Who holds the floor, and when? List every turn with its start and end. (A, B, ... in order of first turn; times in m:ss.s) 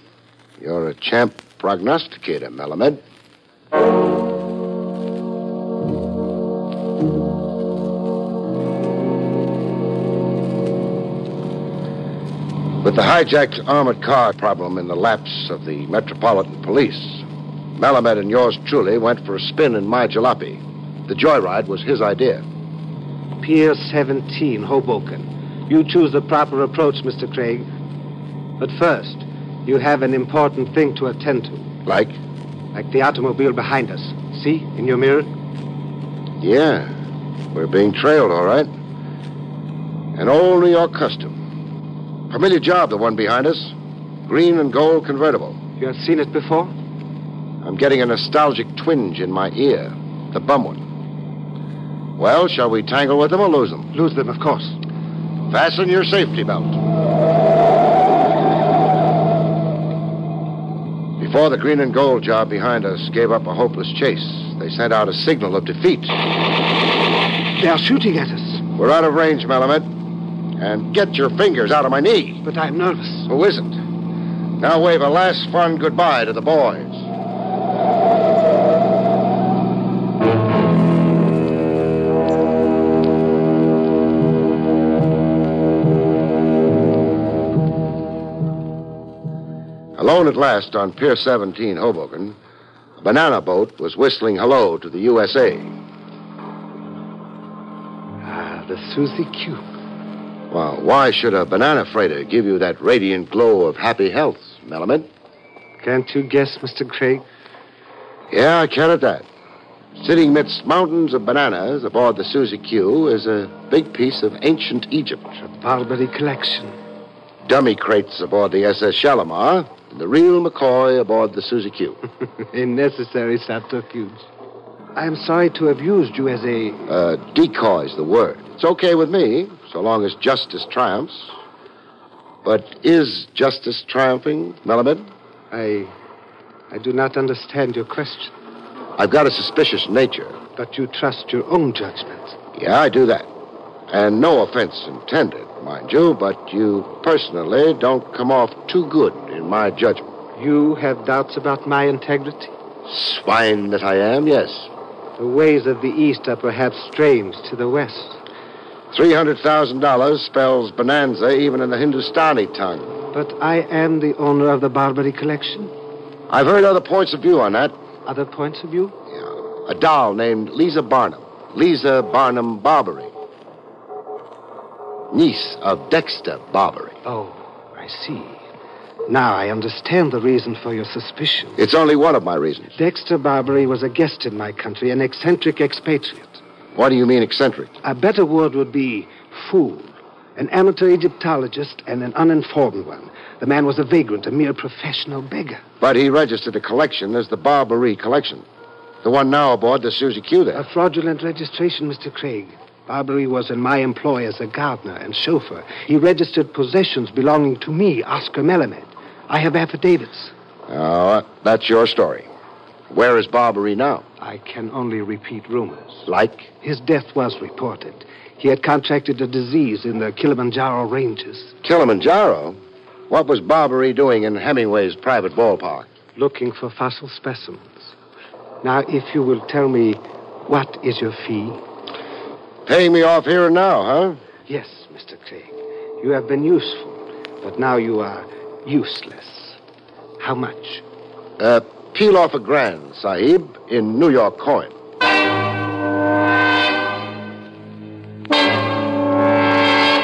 0:00.6-0:03.0 A
0:12.8-0:17.2 A
0:17.8-0:22.4 A
0:23.4-0:27.7 B
0:28.6-0:31.7 B
0:31.8-0:32.2 A
0:32.7-0:35.3 B
0:36.4-0:36.9 A
0:37.5-0:38.7 A
0:40.1-0:41.4 A
0:42.3-0:43.7 A
0:44.3-0:45.6 A
0:45.8-0:46.7 B
0:47.6-0:50.8 A
0:52.2-0:53.9 A
0:53.9-0:54.8 B
0:55.5-0:56.8 A
1:01.2-1:06.2 A
1:07.6-1:08.6 B
1:08.8-1:09.9 A
1:10.6-1:12.4 A
1:12.4-1:13.3 B
1:13.3-1:13.8 A
1:14.6-1:17.1 A
1:30.0-1:32.4 A
1:33.0-1:35.7 A
1:38.2-1:39.6 B
1:40.5-1:45.1 A
1:45.8-1:47.2 B
1:48.3-1:49.2 A
1:50.0-1:55.3 A
1:55.4-1:56.8 B
1:57.4-2:02.0 A
2:02.5-2:04.3 B
2:04.9-2:06.9 B
2:06.9-2:11.4 A
2:12.4-2:15.1 A
2:15.5-2:15.9 B
2:16.7-2:18.3 B
2:19.0-2:20.4 A
2:20.6-2:22.4 B
2:22.5-2:23.3 A
2:23.9-2:30.1 A
2:30.4-2:32.5 B
2:32.8-2:34.7 A
2:35.2-2:38.2 B
2:38.9-2:43.0 A
2:43.1-2:45.7 B
2:46.3-2:47.7 A
2:48.0-2:49.0 B
2:49.1-2:53.1 A
2:55.1-2:57.0 A
2:57.0-2:58.4 B
2:59.1-3:01.6 B
3:01.6-3:02.8 A
3:02.8-3:06.4 B
3:06.7-3:07.8 A
3:07.8-3:15.6 B
3:15.8-3:18.4 A
3:19.0-3:20.7 A
3:20.5-3:30.3 B
3:30.7-3:32.3 A
3:32.9-3:34.0 A
3:34.2-3:36.1 B
3:36.0-3:36.5 A
3:36.6-3:41.5 B
3:41.6-3:42.6 A
3:43.1-3:45.9 A
3:46.1-3:47.9 B
3:48.6-3:51.6 B
3:52.6-3:54.2 A
3:54.5-3:59.6 B
4:00.2-4:00.8 B
4:01.4-4:04.7 A